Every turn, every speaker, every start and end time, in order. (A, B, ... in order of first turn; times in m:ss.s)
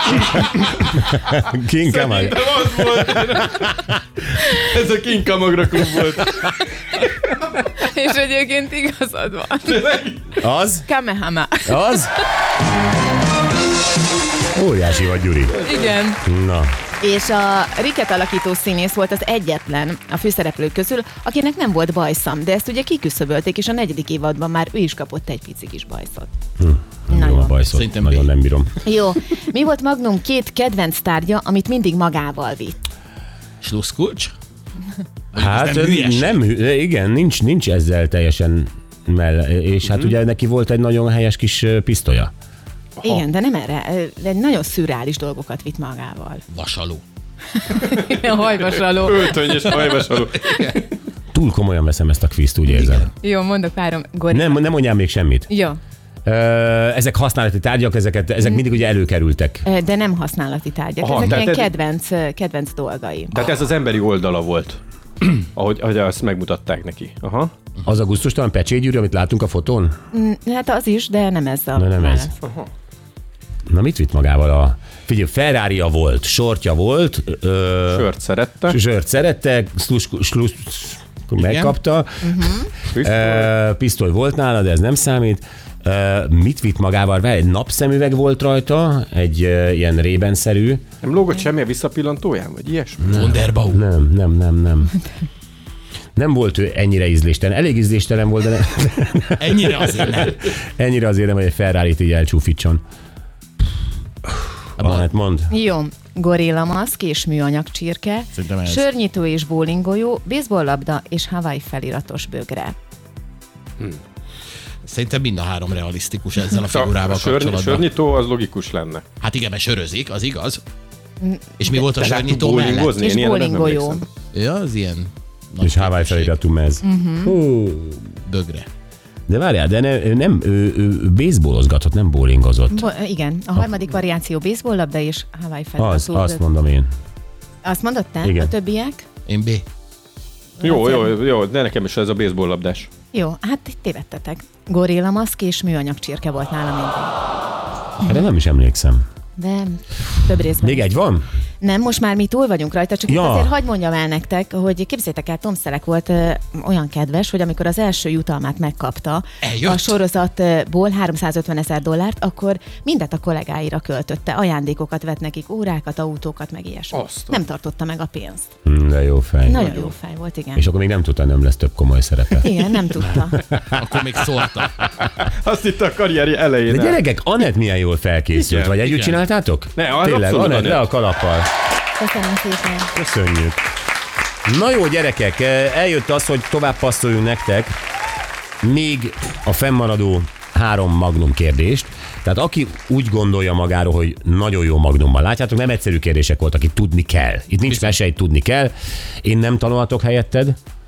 0:01.0-0:02.4 A
0:01.8-0:03.7 B
0:03.5-0:04.0 A
0:04.4-0:06.4 B
0:07.7-0:09.8 C
0:09.6-0:10.4 B
0:10.4-0:10.8 A
0:10.8-0:12.1 C
0:11.6-0:12.1 A
0:14.5-0:15.6 A
0:15.6-0:16.2 C
0:16.2-0:16.7 A
0:17.0-0:26.3 C
0:26.6-0:28.7 A
0:27.1-0:27.6 C
0:27.7-0:28.3 D
0:28.8-0:32.8 C
0:33.6-0:34.3 D
0:35.3-0:36.4 D
0:35.3-0:42.3 A
0:43.0-0:46.4 C
0:46.5-0:47.0 D
0:47.6-0:50.7 C
0:48.8-0:50.8 B
0:51.3-0:53.1 A
0:52.6-0:54.8 C
0:54.3-0:55.5 A
0:55.5-0:55.8 C
0:56.2-0:59.6 A
0:58.4-0:58.7 C
0:59.6-1:03.4 C
1:01.0-1:01.7 B
1:03.3-1:07.5 B
1:07.8-1:09.9 A
1:10.1-1:12.3 C
1:11.8-1:12.3 A
1:13.7-1:18.1 A
1:17.9-1:18.8 B
1:18.7-1:30.8 A
1:21.4-1:21.7 D
1:22.3-1:22.6 C
1:22.9-1:23.5 B
1:31.0-1:33.1 B
1:33.0-1:34.9 A
1:33.1-1:33.8 D
1:36.2-1:42.8 A
1:39.4-1:40.4 D
1:44.8-1:45.1 D
1:44.8-1:45.5 A
1:45.5-1:52.8 C
1:48.3-1:48.8 D
1:54.8-1:57.9 D
1:56.6-1:59.0 B
1:59.2-2:00.6 D
2:01.6-2:03.0 D
2:01.8-2:04.0 B
2:02.9-2:04.0 C
2:04.3-2:06.3 D
2:05.6-2:08.1 A
2:06.8-2:07.4 C
2:08.2-2:08.7 D
2:09.3-2:12.9 A
2:12.7-2:16.4 C
2:15.8-2:16.9 A
2:17.6-2:19.0 C
2:18.2-2:18.5 A
2:19.3-2:19.6 D
2:20.6-2:21.1 C
2:20.6-2:22.9 B
2:23.1-2:27.1 C
2:28.0-2:29.0 A
2:29.4-2:30.9 C
2:30.6-2:31.2 A
2:31.6-2:48.5 C
2:33.1-2:33.5 A
2:39.4-2:39.9 D
2:46.9-2:47.4 B
2:48.6-2:49.6 A
2:49.4-2:50.6 C
2:49.6-2:49.9 B
2:50.5-2:53.7 A
2:52.4-2:53.4 C
2:53.7-2:54.7 D
2:55.0-2:57.0 B
2:56.7-3:01.5 A
2:58.4-2:58.8 B
2:58.8-2:59.2 D
2:59.7-3:00.8 B
3:02.0-3:02.9 C
3:02.9-3:03.6 A
3:04.4-3:07.7 A
3:08.6-3:20.6 A
3:17.7-3:18.0 D